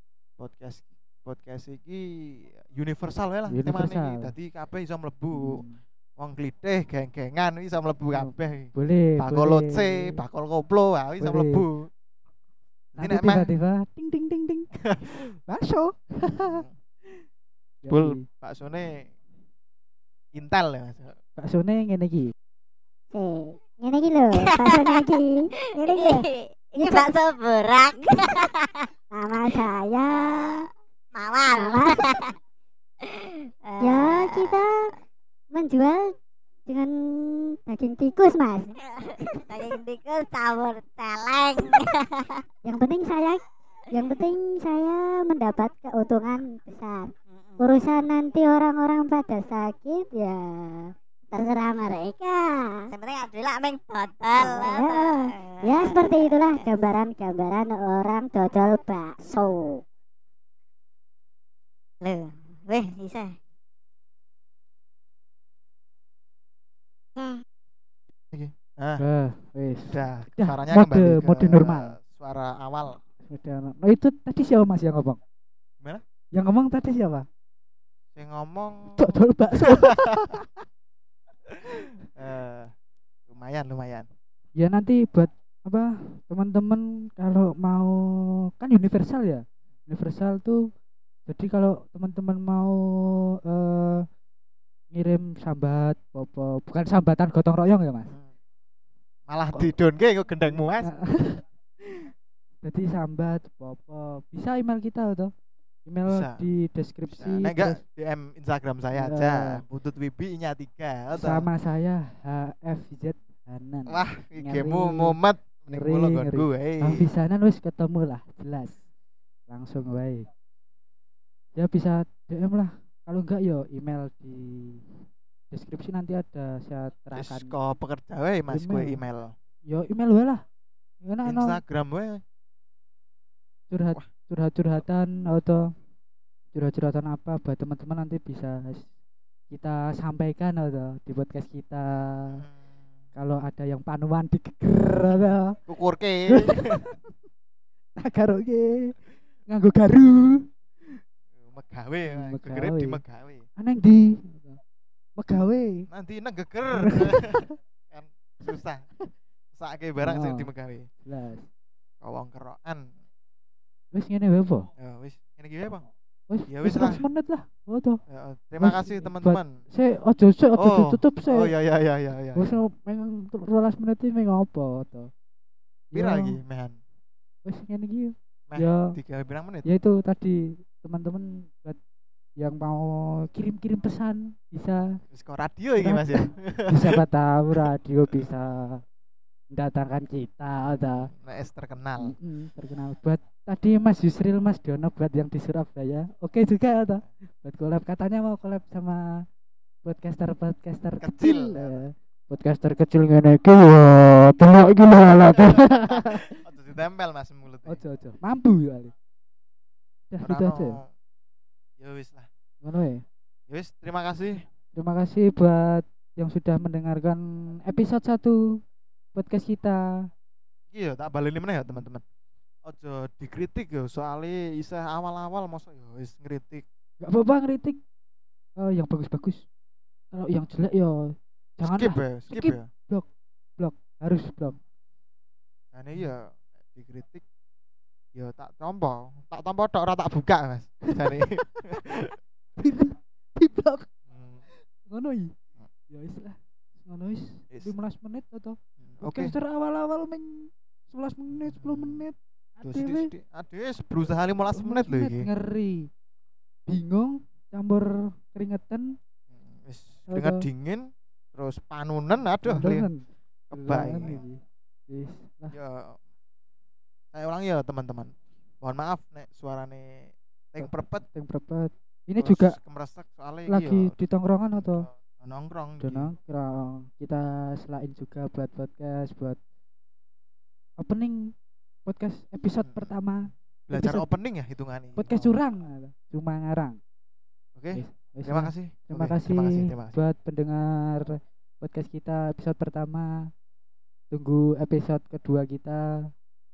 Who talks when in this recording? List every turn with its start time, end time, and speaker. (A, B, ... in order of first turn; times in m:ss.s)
0:00.4-0:05.6 A
0:03.5-0:04.3 B
0:05.3-0:05.8 B
0:06.2-0:11.9 A
0:08.1-0:10.1 B
0:11.2-0:11.6 B
0:12.9-0:13.5 A
0:13.0-0:14.7 B
0:15.5-0:16.6 B
0:16.4-0:16.7 A
0:17.8-0:18.2 B
0:17.9-0:19.1 A
0:20.3-0:21.2 A
0:21.4-0:22.3 B
0:23.1-0:26.2 C
0:24.3-0:25.2 D
0:25.8-0:32.3 D
0:26.8-0:27.1 C
0:29.1-0:30.6 C
0:31.5-0:32.1 C
0:33.1-0:34.6 D
0:33.8-0:34.7 C
0:35.5-0:36.1 C
0:36.7-0:38.7 C
0:39.0-0:42.4 D
0:42.6-0:43.4 C
0:43.9-0:52.8 C
0:44.0-0:44.2 D
0:47.3-0:47.9 D
0:52.9-0:56.9 D
0:54.4-0:59.8 C
1:02.0-1:03.4 D
1:07.2-1:07.4 D
1:08.3-1:09.0 A
1:09.0-1:12.0 B
1:09.9-1:13.0 A
1:13.3-1:15.2 B
1:16.3-1:17.2 B
1:18.1-1:19.9 A
1:19.0-1:20.5 B
1:22.1-1:22.7 A
1:23.3-1:24.1 A
1:24.6-1:28.0 B
1:28.6-1:30.6 B
1:31.3-1:34.0 B
1:34.9-1:38.1 B
1:39.3-1:40.9 A
1:40.8-1:41.4 B
1:42.6-1:45.3 B
1:45.8-1:47.8 B
1:46.0-1:46.4 A
1:47.1-1:51.5 A
1:48.9-1:49.6 B
1:51.1-1:55.2 B
1:53.9-1:57.0 A
1:55.7-1:58.8 B
1:59.5-2:00.3 B
2:01.6-2:04.9 B
2:05.5-2:07.5 B
2:07.1-2:09.3 A
2:08.5-2:09.0 B
2:09.7-2:10.4 B
2:11.0-2:11.6 B
2:11.2-2:12.2 A
2:13.7-2:15.6 B
2:16.5-2:18.8 B
2:19.5-2:22.4 B
2:22.3-2:22.7 A
2:23.1-2:25.6 B
2:25.1-2:26.9 A
2:26.3-2:27.0 B
2:28.0-2:28.9 B
2:29.5-2:30.5 B
2:31.4-2:33.4 A
2:32.1-2:33.0 B
2:33.6-2:34.6 B
2:35.2-2:35.9 B
2:35.9-2:38.8 A
2:36.7-2:37.5 B
2:39.5-2:40.9 A
2:40.0-2:40.5 B
2:41.0-2:41.4 B
2:42.0-2:42.9 A
2:43.9-2:44.7 B
2:44.8-2:45.8 A
2:46.3-2:48.0 B
2:46.5-2:47.0 A
2:48.1-2:49.5 A
2:48.6-2:51.5 B
2:50.6-2:52.6 A
2:52.3-2:55.1 B
2:55.9-2:56.4 B
2:55.9-2:56.8 A
2:57.4-2:58.9 B
2:58.5-2:59.7 A
2:59.6-3:01.8 B
3:02.4-3:04.8 B
3:05.1-3:07.0 A
3:05.8-3:08.8 B
3:09.5-3:11.1 B
3:10.8-3:12.1 A
3:12.0-3:19.2 B
3:19.8-3:26.3 B
3:21.0-3:21.8 A
3:25.3-3:27.8 A
3:27.7-3:28.9 B
3:30.1-3:30.8 B
3:30.2-3:30.9 A
3:31.8-3:32.3 A
3:32.6-3:33.0 B
3:33.5-3:34.4 A
3:34.7-3:38.4 B
3:39.1-3:39.8 B
3:40.7-3:42.0 A
3:42.6-3:46.6 A
3:47.0-3:47.8 B
3:48.6-3:49.4 B
3:50.1-3:51.0 B
3:51.6-3:54.6 B
3:51.6-3:52.7 A
3:55.7-3:57.2 A
3:58.1-4:02.1 A
4:02.6-4:03.9 B
4:04.1-4:04.4 A
4:04.8-4:05.3 B
4:05.9-4:13.1 B
4:08.8-4:09.3 A
4:11.3-4:12.0 A
4:12.6-4:15.3 A
4:14.5-4:15.9 B
4:16.7-4:18.9 B
4:19.3-4:22.9 A
4:20.1-4:20.4 B
4:22.4-4:24.4 B
4:23.5-4:24.2 A
4:24.9-4:25.5 B
4:25.5-4:26.0 A
4:27.1-4:31.0 A
4:30.6-4:32.6 B
4:32.2-4:34.0 A
4:33.5-4:34.9 B
4:34.5-4:36.1 A
4:35.8-4:39.4 B
4:40.8-4:41.3 B
4:41.8-4:44.1 B
4:42.6-4:42.9 A
4:43.7-4:45.3 A
4:45.0-4:46.8 B
4:47.6-4:50.0 A
4:47.7-4:51.1 B
4:51.6-4:53.3 B
4:54.1-4:55.8 B